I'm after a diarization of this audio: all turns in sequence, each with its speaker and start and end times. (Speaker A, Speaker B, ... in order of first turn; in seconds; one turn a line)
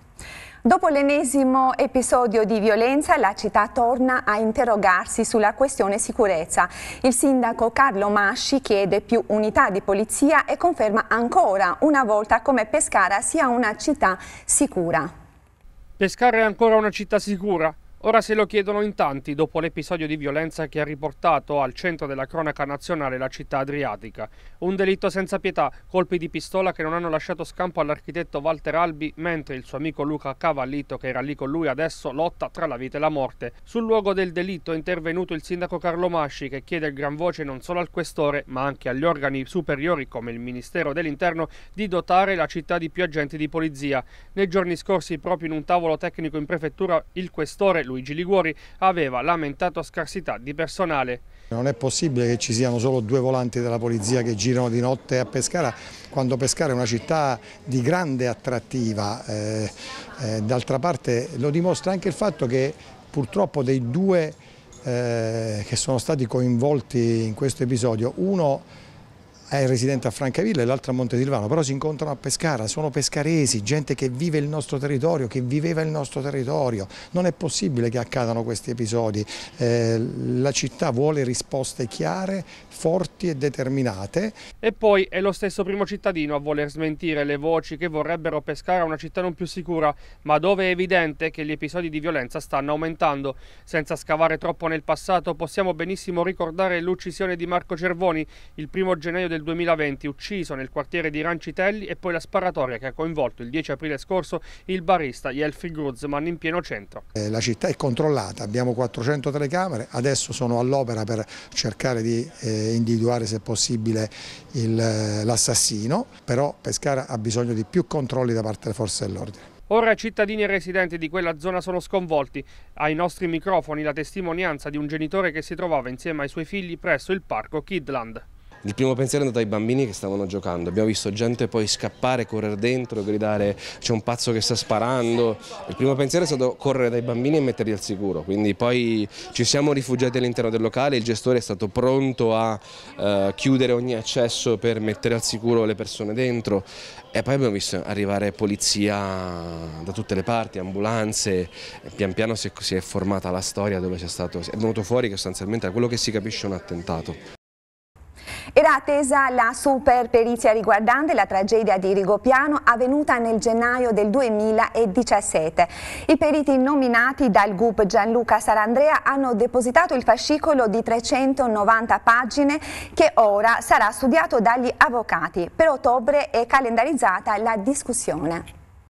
Speaker A: 0.6-15.1
Speaker B: 16.0-51.2
Speaker C: 51.5-68.7
Speaker C: 69.5-84.4
Speaker B: 84.6-107.0
Speaker C: 107.1-119.4
Speaker B: 119.7-128.2
Speaker D: 128.7-157.2
Speaker A: 158.5-178.4